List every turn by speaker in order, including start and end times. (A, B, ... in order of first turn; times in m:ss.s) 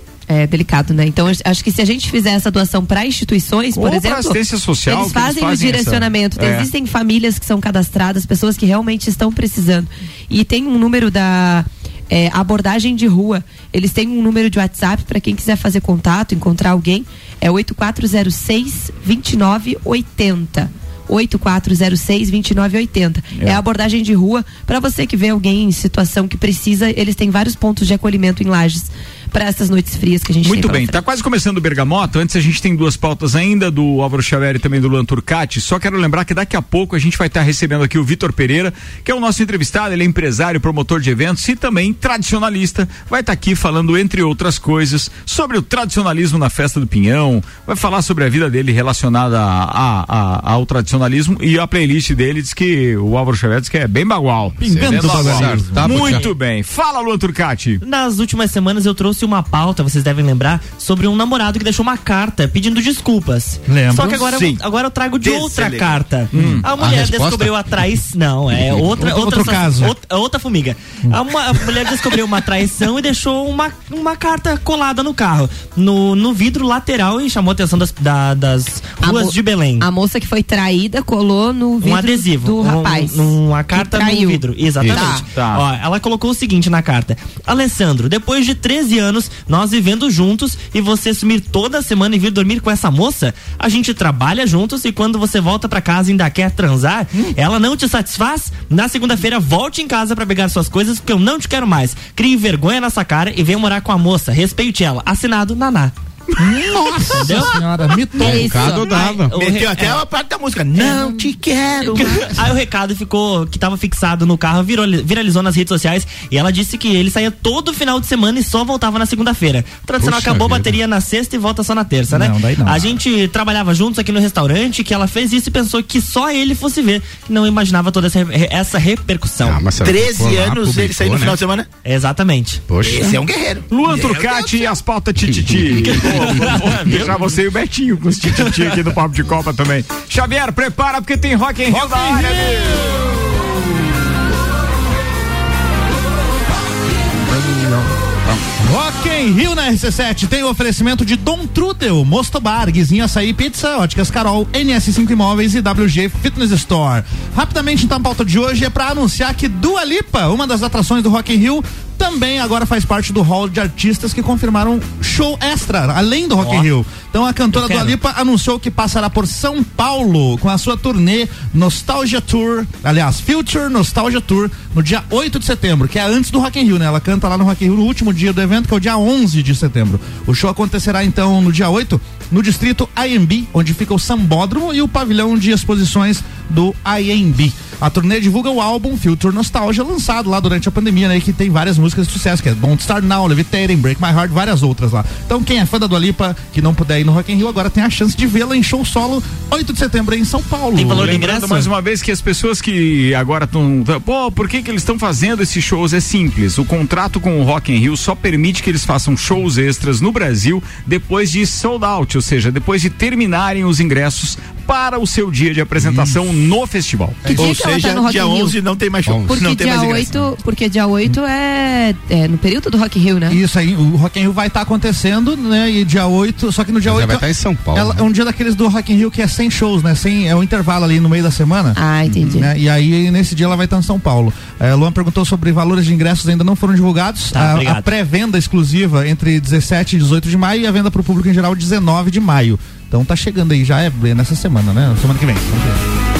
0:00.3-0:31.0 A
0:03.8-0:06.7 B
0:30.4-0:57.8 B
0:54.6-0:56.2 C
0:54.6-0:56.3 D
0:57.8-1:19.9 E
1:03.7-1:04.2 C
1:04.2-1:04.6 F
1:05.2-1:06.0 F
1:06.3-1:06.6 C
1:06.3-1:06.6 B
1:06.7-1:07.6 D
1:09.0-1:10.0 C
1:19.0-1:25.2 A
1:21.8-1:45.9 E
1:24.8-1:25.2 D
1:25.3-1:25.6 B
1:46.4-1:48.8 C
1:47.0-1:47.4 D
1:47.2-1:47.6 E
1:48.2-1:49.4 D
1:48.2-1:50.0 E
1:49.3-1:52.5 F
1:50.8-1:51.1 E
1:51.8-2:09.7 E
2:00.0-2:00.7 D
2:02.1-2:02.9 C
2:09.4-2:11.4 D
2:09.8-2:11.7 F
2:11.8-2:12.6 E
2:12.7-2:13.2 D
2:12.8-2:14.6 F
2:13.7-2:22.9 B
2:15.4-2:16.0 D
2:16.0-2:17.1 E
2:21.7-2:23.4 C
2:27.2-2:27.9 C
2:28.5-3:21.2 C
2:46.4-2:46.7 E
2:47.6-2:47.9 E
3:20.8-3:21.7 E
3:20.9-3:37.3 B
3:35.8-3:36.2 C
3:37.2-3:37.5 C
3:37.3-3:38.6 A
3:37.3-3:40.1 F
3:39.1-3:39.4 D
3:39.3-3:43.4 A
3:43.3-4:05.8 C
3:46.8-3:48.0 D
3:51.8-3:52.5 A
3:57.3-3:57.9 E